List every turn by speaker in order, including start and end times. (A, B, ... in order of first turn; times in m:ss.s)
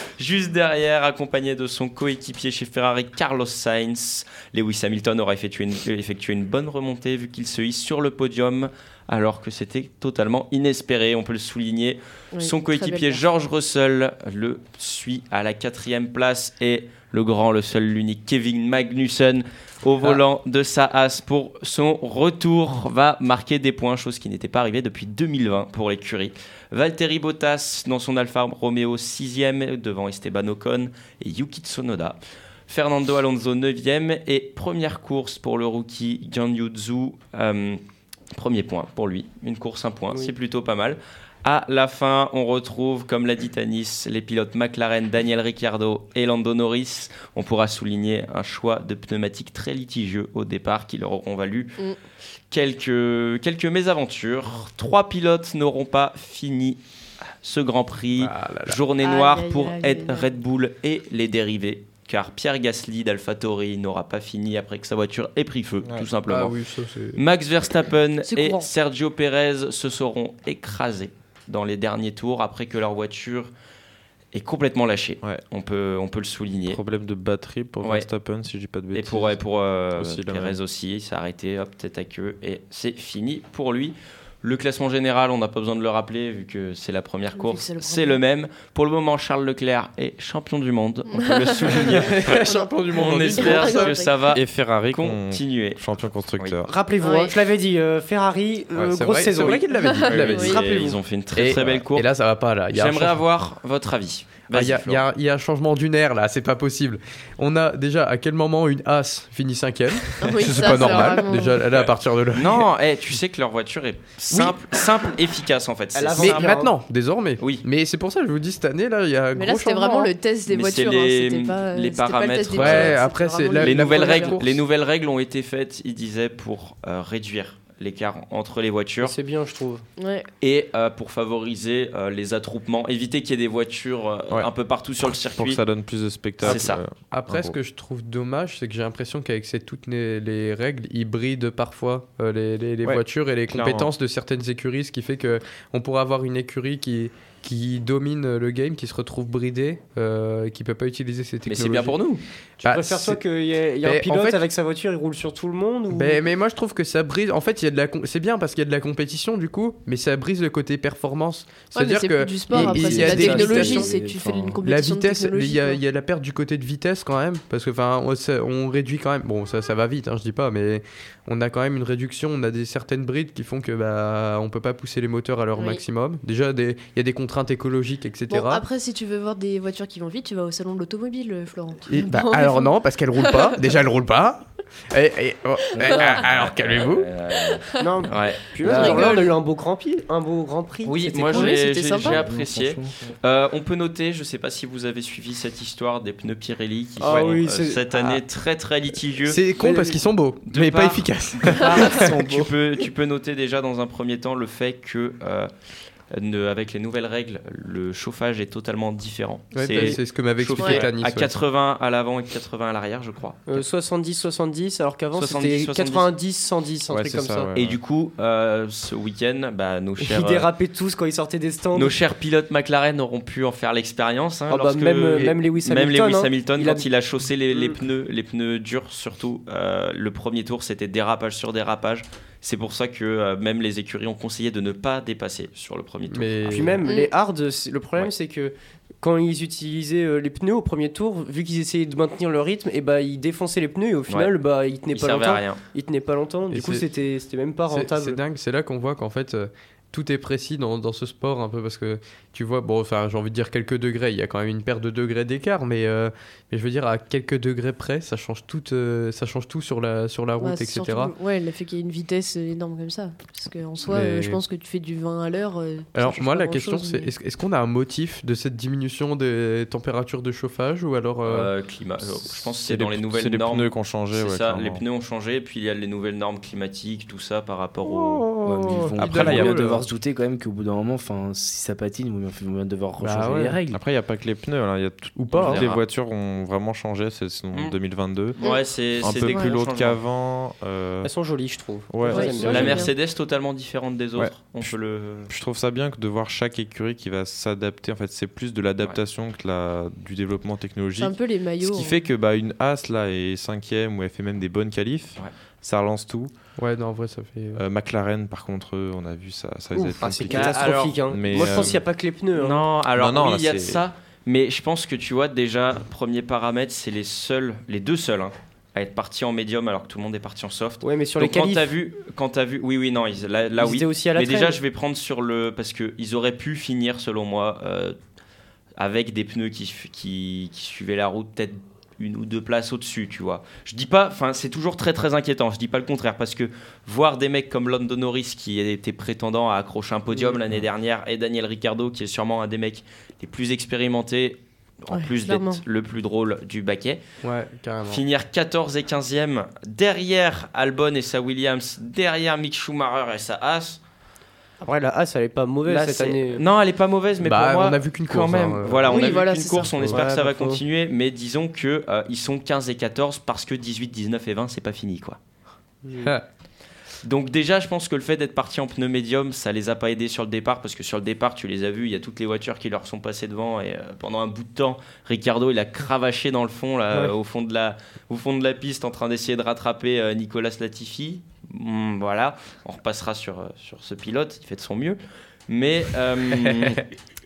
0:00.2-0:37.8 A
0:12.3-0:13.2 B
0:38.3-0:51.8 A
0:52.5-0:56.8 A
0:57.4-1:06.6 A
0:58.1-0:58.8 C
0:59.0-1:00.3 B
1:05.8-1:06.1 D
1:06.3-1:07.2 C
1:07.1-1:13.5 A
1:08.2-1:08.7 B
1:14.3-1:16.8 A
1:16.7-1:19.4 D
1:17.8-1:18.1 A
1:18.9-1:35.8 A
1:20.0-1:20.6 D
1:27.3-1:28.2 B
1:31.1-1:32.8 B
1:31.8-1:33.9 C
1:33.4-1:34.4 B
1:34.3-1:36.7 D
1:36.3-1:36.6 A
1:36.6-1:41.0 E
1:37.0-1:37.3 B
1:38.8-1:40.6 C
1:39.9-1:40.6 B
1:40.0-1:42.1 A
1:41.3-1:43.2 C
1:42.7-1:45.0 A
1:44.5-1:52.7 C
1:50.2-1:51.6 B
1:50.7-1:51.1 A
1:52.3-1:56.6 A
1:54.3-1:54.6 C
1:55.9-1:56.7 E
1:56.2-2:00.1 C
1:57.4-1:57.6 A
1:59.3-2:04.4 B
2:00.5-2:03.0 A
2:02.6-2:04.6 C
2:03.6-2:09.1 A
2:09.0-2:09.8 E
2:10.0-2:10.3 B
2:10.4-2:15.6 A
2:15.0-2:17.5 D
2:16.4-2:16.8 A
2:16.4-2:32.0 C
2:23.5-2:23.9 D
2:31.4-2:32.2 A
2:32.6-2:33.2 C
2:32.6-2:36.2 E
2:33.8-2:34.4 C
2:35.9-2:43.9 C
2:41.7-2:45.8 B
2:42.5-2:44.6 F
2:44.6-2:58.6 C
2:55.5-2:55.8 B
2:58.3-3:03.6 B
3:01.9-3:07.1 C
3:05.8-3:06.2 F
3:05.8-3:06.1 B
3:05.9-3:08.5 A
3:07.5-3:08.0 B
3:07.8-3:11.6 E
3:08.6-3:09.4 B
3:08.6-3:09.1 F
3:10.8-3:19.4 A
3:11.2-3:12.2 B
3:11.9-3:13.1 F
3:17.0-3:17.8 E
3:17.1-3:17.3 C
3:19.2-3:22.1 C
3:19.6-3:20.0 E
3:20.4-3:25.5 A
3:21.6-3:22.5 E
3:26.1-3:33.4 A
3:29.5-3:31.3 C
3:30.6-3:30.8 B
3:33.4-3:37.5 E
3:35.1-3:36.1 A
3:36.9-3:37.8 D
3:37.5-3:40.5 A
3:40.0-3:42.0 E
3:41.7-3:56.8 A
3:44.5-3:46.9 E
3:47.5-3:47.8 E
3:56.1-3:56.8 C
3:56.5-4:08.2 E
3:56.8-3:57.1 B
4:04.1-4:04.3 A
4:04.9-4:05.6 A
4:06.5-4:06.8 C
4:07.7-4:21.1 C
4:20.4-4:27.1 B
4:23.9-4:24.4 C
4:25.9-4:31.5 C
4:31.2-4:38.2 A
4:32.2-4:34.8 D
4:37.8-4:39.8 C
4:38.4-4:43.8 F
4:39.0-4:39.5 D
4:43.0-4:43.6 C
4:43.7-4:51.1 D
4:45.2-4:45.6 C
4:45.3-4:45.8 A
4:48.4-4:50.0 A
4:48.4-4:48.7 B
4:49.2-4:49.6 B
4:51.0-4:52.8 E
4:51.9-4:52.7 D
4:52.0-4:52.9 B
4:52.4-4:55.3 A
4:54.2-4:54.7 D
4:55.3-5:06.3 D
5:01.0-5:02.0 B
5:06.6-5:07.6 C
5:07.5-5:11.8 D
5:09.7-5:12.7 E
5:10.3-5:11.8 A
5:12.3-5:28.0 A
5:12.9-5:13.8 D
5:20.8-5:21.7 E
5:23.6-5:24.6 E
5:28.8-5:47.0 A
5:44.9-5:45.6 B
5:47.2-5:48.0 C
5:47.9-5:53.8 A
5:54.6-5:56.4 E
5:55.6-6:05.2 A
5:57.2-5:59.0 C
5:58.9-5:59.8 B
5:58.9-5:59.2 E
5:59.8-6:00.6 E
6:05.8-6:06.1 E
6:07.0-6:26.8 A